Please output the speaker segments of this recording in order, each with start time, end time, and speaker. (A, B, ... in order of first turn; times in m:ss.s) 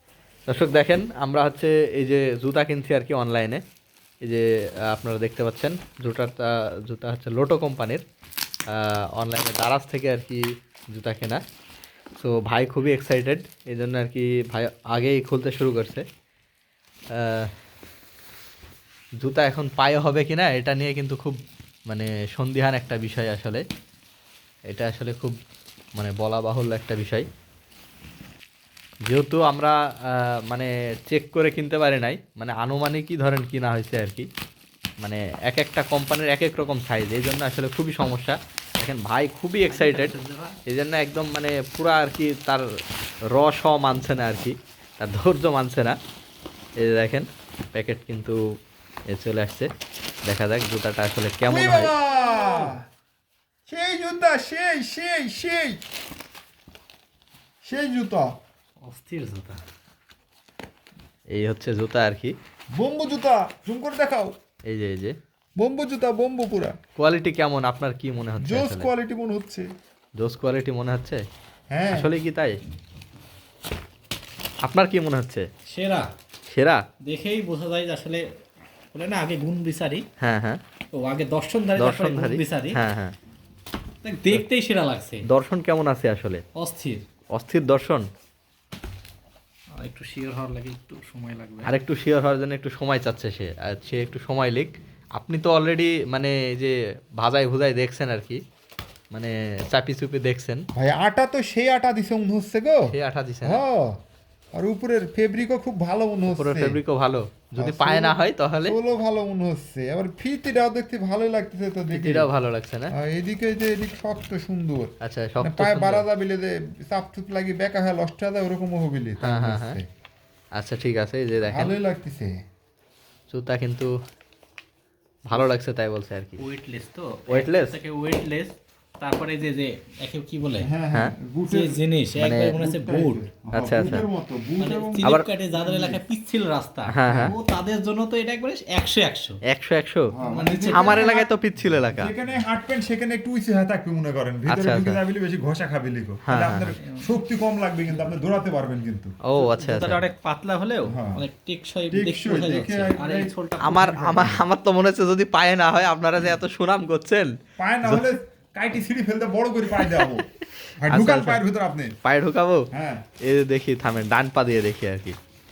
0:00.5-0:03.6 A
0:04.2-0:08.0 A
0:08.7-0:10.4 A
0:10.9-0:11.4 A
0:12.2-0:16.0 A
0:17.2-0:17.5 A
0:19.2-0:21.4 A
0:21.9-0:23.6 A
0:24.7-0:25.4 A
0:26.0-0:27.3 A
0:29.1-0:34.3 A
0:35.0-0:40.1 A
0:39.7-0:40.6 B
0:40.7-0:42.6 A
0:43.3-0:46.0 A
0:46.8-0:48.4 A
0:49.1-0:49.7 A
0:50.3-0:52.6 A
0:51.5-0:52.8 C
0:53.7-0:55.8 C
0:57.6-0:58.3 C
0:58.8-0:59.6 B
1:01.3-1:02.4 A
1:02.8-1:04.3 C
1:04.7-1:05.2 A
1:05.6-1:06.8 C
1:07.0-1:08.9 A
1:08.4-1:09.7 C
1:10.2-1:11.2 A
1:11.7-1:12.1 C
1:11.9-1:12.6 A
1:14.6-1:15.5 A
1:15.7-1:16.1 B
1:16.5-1:16.8 A
1:17.0-1:18.2 B
1:18.9-1:20.0 B
1:20.2-1:20.6 A
1:20.9-1:22.8 B
1:21.8-1:23.2 A
1:24.0-1:25.2 B
1:25.3-1:26.4 A
1:26.6-1:27.0 B
1:27.3-1:28.0 A
1:29.8-1:31.8 B
1:31.6-1:38.4 A
1:39.1-1:40.7 A
1:40.7-1:42.9 C
1:42.9-1:43.6 A
1:43.4-1:44.0 C
1:44.6-1:46.8 C
1:46.3-1:48.8 A
1:47.6-1:52.3 C
1:51.9-1:52.9 A
1:52.9-1:59.8 C
1:55.0-1:56.0 A
1:59.2-1:59.8 A
2:00.6-2:01.7 A
2:01.5-2:02.4 C
2:03.3-2:03.9 A
2:05.3-2:06.4 A
2:06.4-2:10.7 B
2:07.3-2:07.7 A
2:10.6-2:11.8 C
2:11.5-2:13.2 B
2:12.2-2:12.5 A
2:12.5-2:16.0 C
2:13.5-2:14.1 A
2:14.6-2:19.4 B
2:16.9-2:17.4 A
2:17.1-2:17.4 C
2:19.5-2:20.1 A
2:20.1-2:29.2 C
2:20.2-2:21.1 B
2:20.7-2:22.1 A
2:24.5-2:25.0 A
2:26.3-2:26.7 A
2:26.9-2:27.1 B
2:29.2-2:30.0 A
2:29.4-2:34.0 B
2:30.8-2:31.2 C
2:31.9-2:34.4 C
2:33.6-2:38.1 A
2:37.6-2:40.3 C
2:39.7-2:40.2 A
2:40.8-2:42.0 C
2:40.9-2:41.4 A
2:42.0-2:42.7 A
2:42.7-2:43.0 C
2:43.2-2:45.2 A